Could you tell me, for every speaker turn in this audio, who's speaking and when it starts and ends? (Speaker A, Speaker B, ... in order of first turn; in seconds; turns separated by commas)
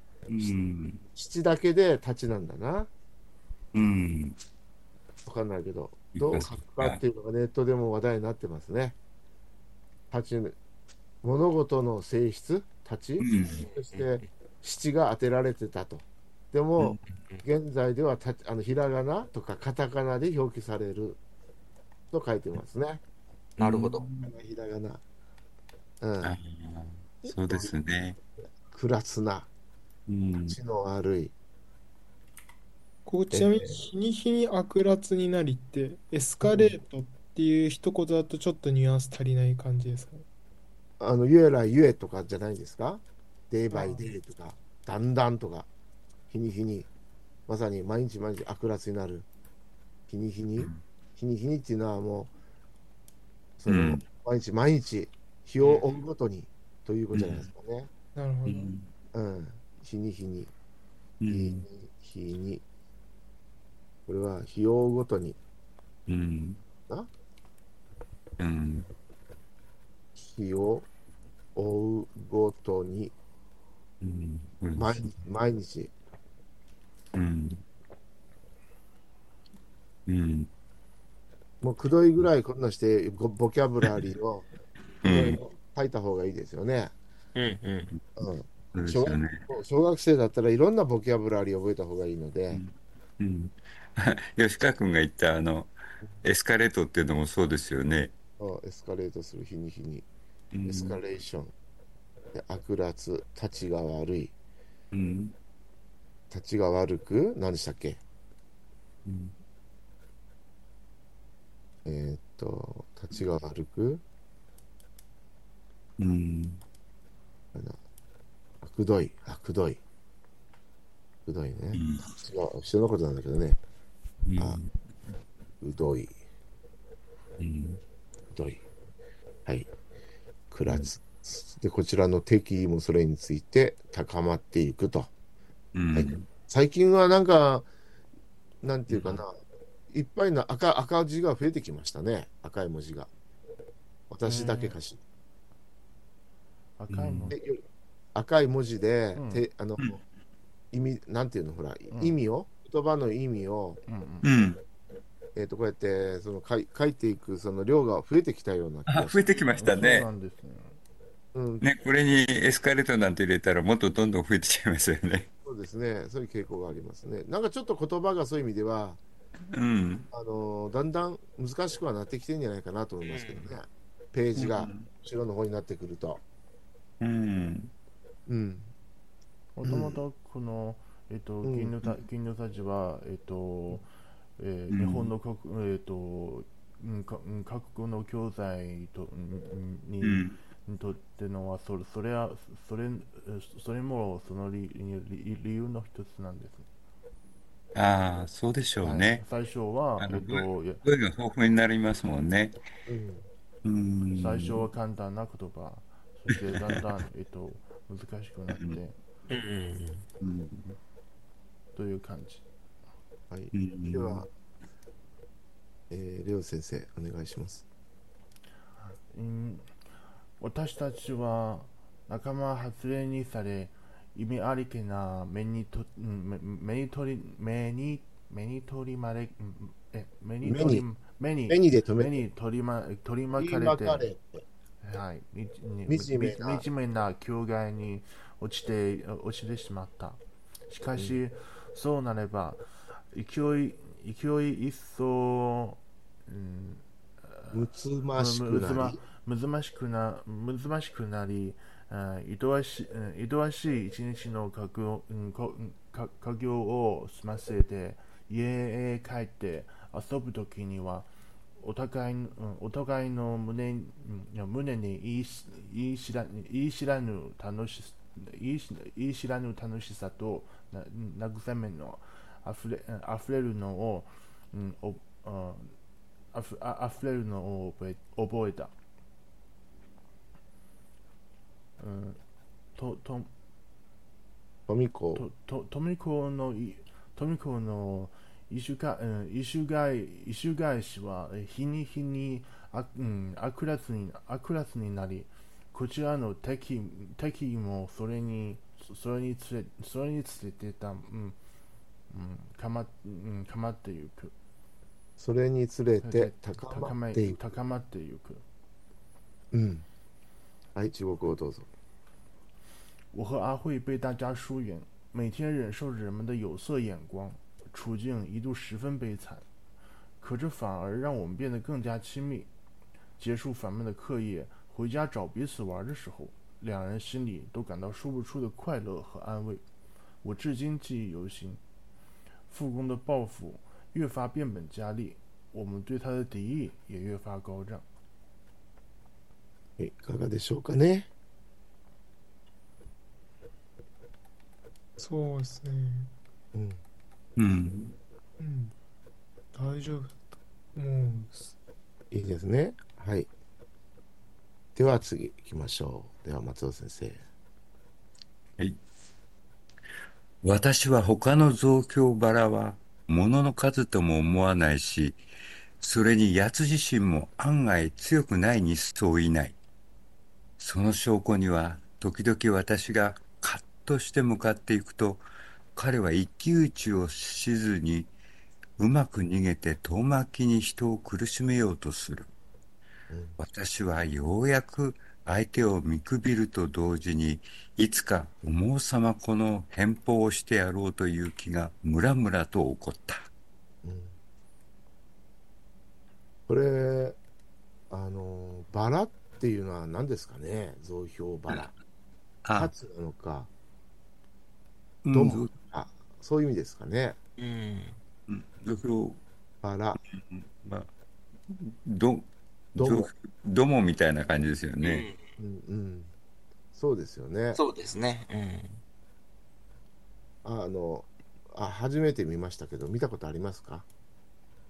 Speaker A: 0.3-1.0, Speaker B: 1.1-2.9, Speaker A: 3.7-4.4, Speaker B: 5.2-9.0, Speaker A: 6.1-7.0, Speaker B: 10.1-10.6, Speaker B: 11.2-21.2, Speaker A: 13.2-13.6, Speaker C: 13.4-14.2, Speaker B: 22.1-23.0, Speaker C: 23.6-24.0, Speaker A: 23.6-24.3, Speaker B: 24.2-25.0, Speaker B: 26.0-26.4, Speaker A: 26.2-28.2, Speaker B: 27.3-27.7, Speaker B: 28.7-29.5, Speaker A: 30.1-30.6, Speaker B: 30.4-31.3, Speaker D: 33.0-40.2, Speaker B: 33.3-33.8, Speaker B: 36.4-36.8, Speaker B: 41.0-45.7, Speaker D: 43.7-44.1, Speaker B: 46.3-46.9, Speaker B: 47.5-49.3, Speaker B: 50.1-52.3, Speaker B: 53.6-57.9, Speaker A: 53.7-54.0, Speaker A: 57.1-57.5, Speaker D: 58.1-58.7, Speaker A: 58.5-58.9, Speaker B: 59.1-60.5, Speaker A: 61.2-61.6, Speaker B: 61.3-62.6, Speaker B: 64.1-65.4, Speaker A: 66.1-66.6, Speaker A: 68.4-68.9, Speaker B: 70.2-70.9, Speaker B: 71.5-73.1, Speaker A: 74.0-75.2, Speaker B: 74.7-75.9, Speaker A: 77.1-77.6, Speaker A: 80.1-80.5, Speaker B: 81.6-84.5, Speaker A: 85.0-85.4, Speaker B: 85.0-86.9, Speaker C: 87.3-87.9, Speaker B: 88.2-92.6, Speaker A: 88.7-89.4, Speaker A: 92.5-98.1, Speaker B: 98.4-100.1, Speaker A: 100.5-101.0, Speaker B: 100.6-101.5, Speaker B: 102.3-104.3, Speaker A: 104.9-105.3, Speaker B: 106.3-108.0, Speaker A: 109.0-109.3, Speaker B: 111.8-114.0, Speaker A: 116.0-116.6, Speaker B: 118.6-119.8, Speaker B: 121.2-123.6, Speaker A: 121.7-122.1, Speaker A: 124.3-124.7, Speaker B: 125.6-126.1, Speaker A: 127.4-127.8, Speaker B: 128.3-128.6, Speaker B: 130.5-135.1, Speaker A: 135.7-136.2, Speaker B: 135.9-137.7, Speaker B: 138.6-139.4, Speaker A: 138.9-139.2, Speaker B: 139.9-143.1, Speaker B: 144.1-145.0, Speaker E: 144.2-144.8, Speaker E: 146.8-147.4, Speaker A: 146.9-147.3, Speaker B: 147.3-150.0, Speaker E: 149.2-149.4, Speaker B: 150.7-153.8, Speaker E: 151.9-152.2, Speaker E: 153.9-154.3, Speaker A: 154.2-154.6, Speaker B: 155.3-159.2, Speaker A: 158.9-160.1, Speaker E: 159.3-160.8, Speaker B: 161.3-161.7, Speaker A: 161.6-165.3, Speaker B: 165.4-169.0, Speaker A: 169.5-170.1, Speaker B: 170.1-176.2, Speaker C: 173.0-173.5, Speaker A: 174.3-174.9, Speaker A: 177.0-177.7, Speaker B: 178.3-178.7, Speaker E: 179.6-196.7, Speaker B: 179.6-180.0, Speaker B: 181.4-181.8, Speaker A: 184.7-185.1, Speaker A: 190.0-190.3, Speaker A: 197.7-199.2, Speaker E: 198.8-200.8, Speaker A: 200.0-202.6, Speaker B: 202.9-203.2, Speaker A: 203.6-204.6, Speaker E: 204.1-209.0, Speaker A: 206.3-206.8, Speaker A: 208.5-208.8, Speaker C: 209.3-210.1, Speaker A: 210.2-210.8, Speaker E: 211.7-212.4, Speaker B: 213.3-214.3, Speaker A: 213.5-214.2, Speaker B: 215.9-217.6, Speaker E: 218.8-219.7, Speaker E: 220.4-234.1, Speaker B: 230.4-230.8, Speaker B: 231.5-232.1, Speaker B: 233.3-234.4, Speaker E: 234.8-275.7, Speaker B: 235.9-236.6, Speaker B: 240.9-241.2, Speaker B: 247.5-249.0, Speaker E: 276.3-278.7, Speaker E: 281.8-282.2, Speaker E: 282.8-283.3, Speaker B: 284.7-285.2, Speaker E: 285.1-301.4, Speaker E: 302.1-304.3, Speaker B: 305.2-307.4, Speaker E: 306.0-308.4, Speaker B: 309.5-309.9, Speaker B: 310.7-311.7, Speaker E: 313.1-319.4, Speaker E: 320.2-322.5, Speaker E: 323.2-329.6, Speaker E: 330.2-331.6, Speaker E: 332.5-337.8, Speaker B: 339.8-341.1, Speaker D: 345.0-346.1, Speaker B: 346.5-346.8, Speaker A: 347.4-347.9, Speaker D: 348.4-348.7, Speaker D: 349.5-351.5, Speaker B: 352.1-353.3, Speaker B: 354.7-357.2, Speaker A: 360.4-365.2, Speaker A: 365.8-369.6, Speaker A: 370.6-375.2, Speaker A: 375.8-378.1, Speaker A: 378.8-382.3, Speaker B: 383.1-383.4, Speaker A: 383.4-393.3, Speaker B: 393.8-394.1, Speaker B: 396.5-397.2, Speaker B: 397.9-401.7, Speaker A: 402.4-402.7, Speaker B: 402.5-403.5, Speaker A: 405.0-405.5, Speaker B: 405.1-407.2, Speaker C: 407.4-408.0, Speaker A: 408.3-409.2, Speaker B: 409.6-410.0, Speaker A: 410.1-410.9, Speaker A: 411.5-415.1, Speaker B: 412.8-413.1, Speaker C: 414.8-415.2, Speaker B: 415.4-416.1, Speaker B: 416.7-417.6, Speaker C: 417.5-418.8, Speaker B: 420.4-423.9